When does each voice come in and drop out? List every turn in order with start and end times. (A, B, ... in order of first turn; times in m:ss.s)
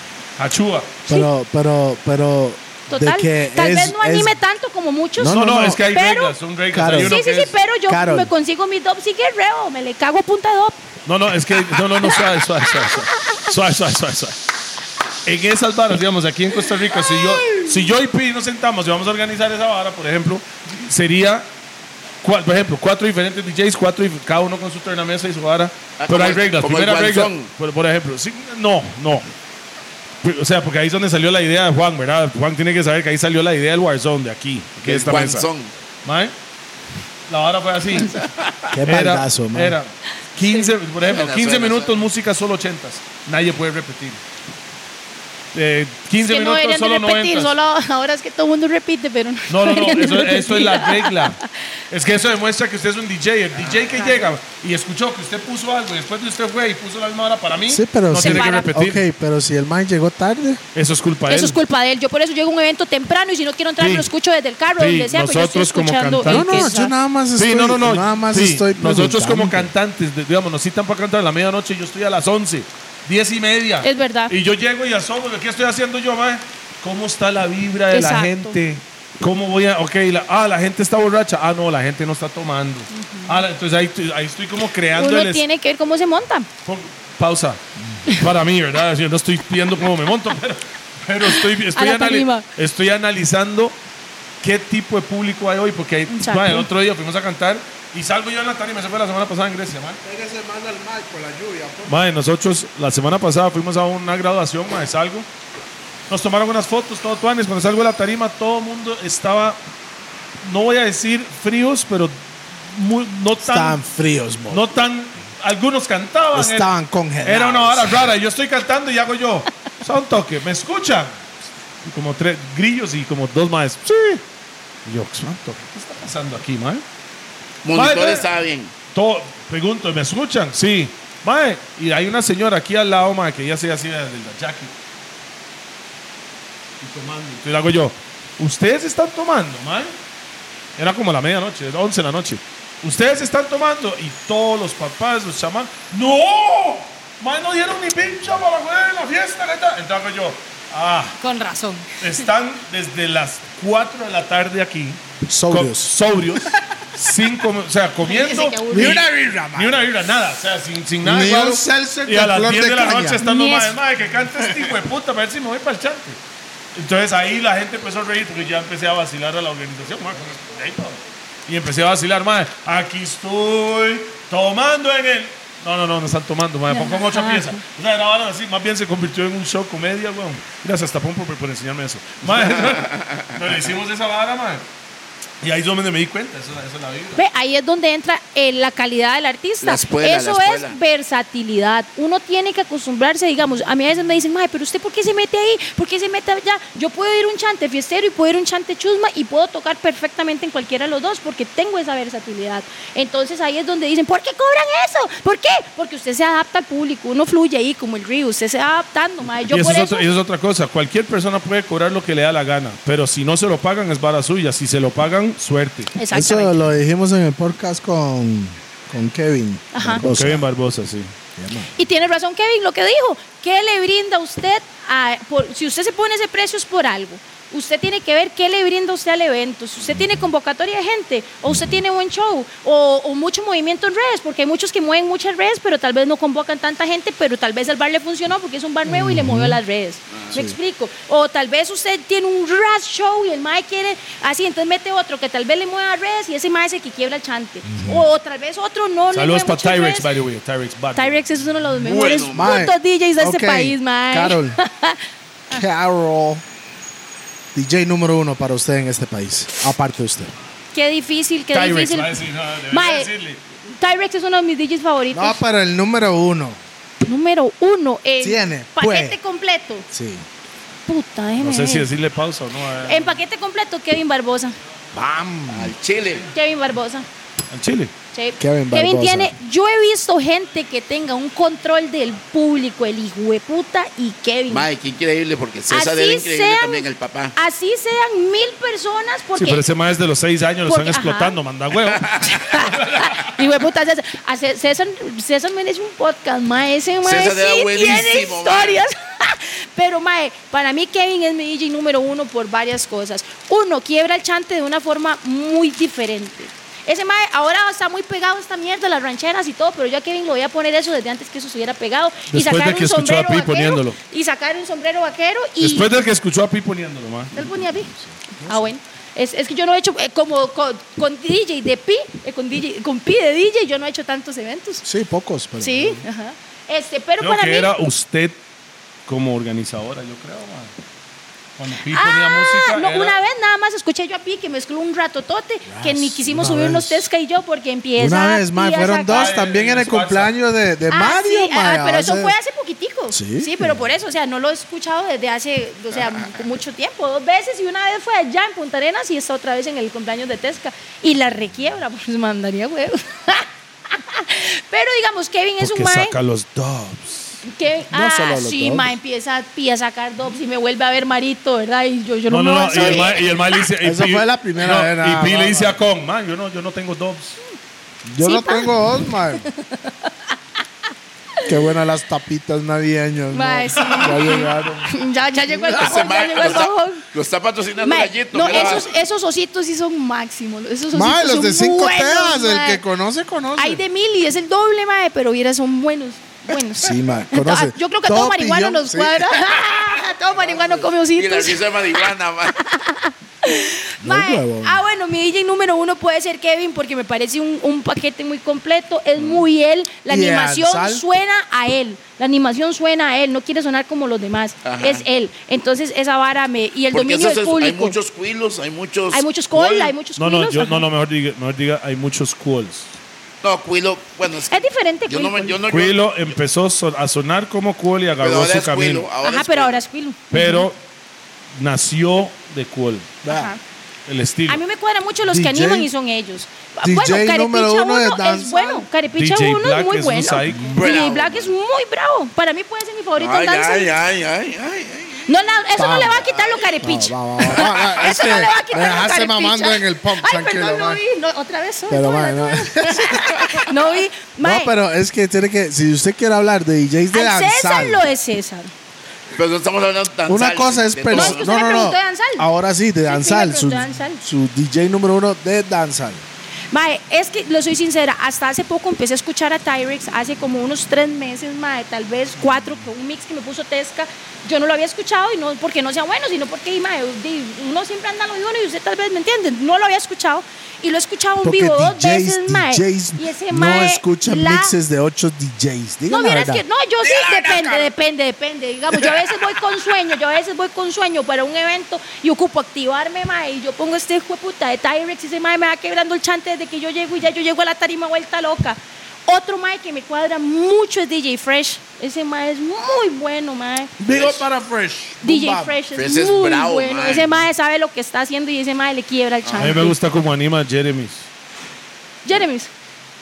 0:00.4-0:01.0 A
0:01.1-0:04.3 B
0:02.9-0:06.4 C
0:05.2-0:05.8 B
0:05.2-0:07.6 A
0:06.7-0:07.2 B
0:06.9-0:10.8 C
0:07.9-0:08.3 B
0:11.1-0:14.4 A
0:15.2-0:21.5 A
0:22.2-0:29.3 A
0:26.0-0:27.5 D
0:30.2-0:35.5 A
0:34.8-0:35.7 D
0:36.0-0:36.3 A
0:37.3-0:38.2 A
0:38.2-0:38.6 D
0:38.7-0:39.8 B
0:38.8-0:44.2 A
0:40.4-0:40.7 C
0:41.1-0:42.0 D
0:45.5-0:47.5 A
0:46.2-0:51.5 C
0:49.5-0:59.0 A
0:57.7-1:00.6 B
0:58.2-0:58.7 C
1:00.8-1:01.6 A
1:01.3-1:06.9 C
1:03.8-1:04.1 A
1:04.8-1:06.7 A
1:06.3-1:09.7 B
1:07.4-1:25.4 A
1:13.8-1:14.3 C
1:17.9-1:18.6 C
1:22.9-1:23.3 C
1:25.0-1:26.5 C
1:26.6-1:33.8 A
1:31.3-1:32.5 C
1:34.4-1:40.0 A
1:36.1-1:36.7 C
1:40.0-1:42.0 B
1:41.9-1:45.3 A
1:46.1-1:49.6 A
1:50.4-1:52.2 A
1:52.7-1:53.8 A
1:53.4-1:54.7 B
1:54.5-1:56.7 A
1:56.4-1:58.1 B
1:57.2-2:01.2 A
2:01.8-2:04.2 A
2:04.9-2:06.8 A
2:07.6-2:08.7 D
2:07.7-2:08.3 A
2:08.9-2:14.7 A
2:16.8-2:19.9 A
2:20.8-2:31.2 A
2:31.2-2:32.0 C
2:32.0-2:46.2 A
2:35.3-2:35.9 B
2:38.0-2:39.0 C
2:38.7-2:39.9 B
2:41.0-2:43.2 B
2:43.2-2:43.8 C
2:46.8-3:04.6 A
2:56.7-2:57.6 C
3:02.3-3:03.2 D
3:05.4-3:07.2 A
3:07.2-3:30.1 C
3:09.6-3:10.8 D
3:29.5-3:35.9 A
3:36.0-3:36.6 C
3:36.1-3:40.5 B
3:39.7-3:40.0 C
3:40.0-3:41.1 A
3:41.4-3:41.7 B
3:41.8-4:10.1 C
3:58.9-3:59.6 B
4:00.1-4:00.4 D
4:07.7-4:08.1 B
4:09.1-4:11.2 A
4:11.0-4:15.6 C
4:11.8-4:12.6 D
4:12.3-4:14.6 B
4:15.5-4:16.4 B
4:17.5-4:20.3 B
4:20.7-4:22.2 C
4:21.5-4:23.4 A
4:22.7-4:23.1 C
4:23.7-4:25.4 C
4:25.1-4:26.6 B
4:27.0-4:29.9 C
4:28.2-4:29.2 B
4:29.9-4:30.3 B
4:30.9-4:31.9 C
4:31.4-4:33.2 A
4:32.8-4:34.6 C
4:34.9-4:35.7 B
4:35.5-4:36.3 D
4:36.3-4:37.1 C
4:37.5-4:37.9 A
4:38.1-4:44.7 C
4:38.4-4:39.3 B
4:44.5-4:47.4 D
4:45.7-4:49.6 C
4:49.4-4:53.2 A
4:50.7-4:51.4 C
4:51.9-4:52.4 D
4:52.3-5:16.0 C
4:57.0-4:58.8 D
5:12.3-5:14.0 A
5:15.6-5:17.4 A
5:17.4-5:17.9 C
5:18.4-5:18.7 B
5:18.4-5:24.8 C
5:24.8-5:26.0 B
5:25.6-5:27.7 C
5:27.2-5:28.4 A
5:29.1-5:30.7 A
5:31.6-5:33.2 A
5:31.9-5:39.3 C
5:35.7-5:37.0 B
5:38.0-5:42.4 B
5:39.1-5:40.3 A
5:40.9-5:56.2 C
5:43.1-5:43.8 B
5:55.6-5:57.4 A
5:57.4-6:03.2 C
5:57.9-5:58.9 B
6:02.3-6:07.4 A
6:02.7-6:03.1 B
6:03.8-6:05.8 B
6:08.1-6:09.5 B
6:08.2-6:08.7 C
6:09.4-6:10.3 C
6:11.4-6:14.9 B
6:13.3-6:17.0 C
6:13.8-6:14.2 A
6:15.7-6:18.9 D
6:17.8-6:22.8 C
6:20.9-6:23.8 B
6:23.6-6:32.1 C
6:26.8-6:29.4 B
6:29.8-6:32.6 D
6:32.6-6:48.0 C
6:34.0-6:34.8 B
6:39.2-6:39.4 D
6:40.1-6:41.0 B
6:44.6-6:45.0 D
6:46.9-6:49.9 D
6:49.1-6:50.8 C
6:50.2-6:52.9 A
6:53.4-6:56.1 D
6:54.5-6:55.6 C
6:55.7-6:59.1 A
6:58.2-6:59.8 D
6:59.2-7:00.7 C
7:00.3-7:00.8 A
7:01.6-7:03.1 A
7:03.2-7:03.5 B
7:03.3-7:03.6 C
7:04.1-7:04.6 A
7:04.5-7:13.9 C
7:05.3-7:05.9 B
7:06.8-7:08.9 B
7:09.1-7:10.9 A
7:10.7-7:11.5 D
7:13.2-7:15.4 D
7:15.3-7:24.7 C
7:15.8-7:16.3 B
7:16.2-7:16.6 D
7:16.8-7:21.0 B
7:21.9-7:23.7 B
7:24.4-7:28.1 B
7:27.1-7:28.7 C
7:29.3-7:31.4 D
7:30.3-7:36.2 B
7:31.1-7:32.5 C
7:33.1-7:34.2 C
7:36.7-7:54.7 C
7:51.4-7:56.6 B
7:56.1-8:13.9 C
7:57.0-7:57.9 D
8:14.0-8:15.8 B
8:14.1-8:14.4 D
8:15.2-8:20.0 C
8:15.9-8:17.3 D
8:19.4-8:19.9 D
8:19.6-8:21.3 A
8:22.2-8:22.7 C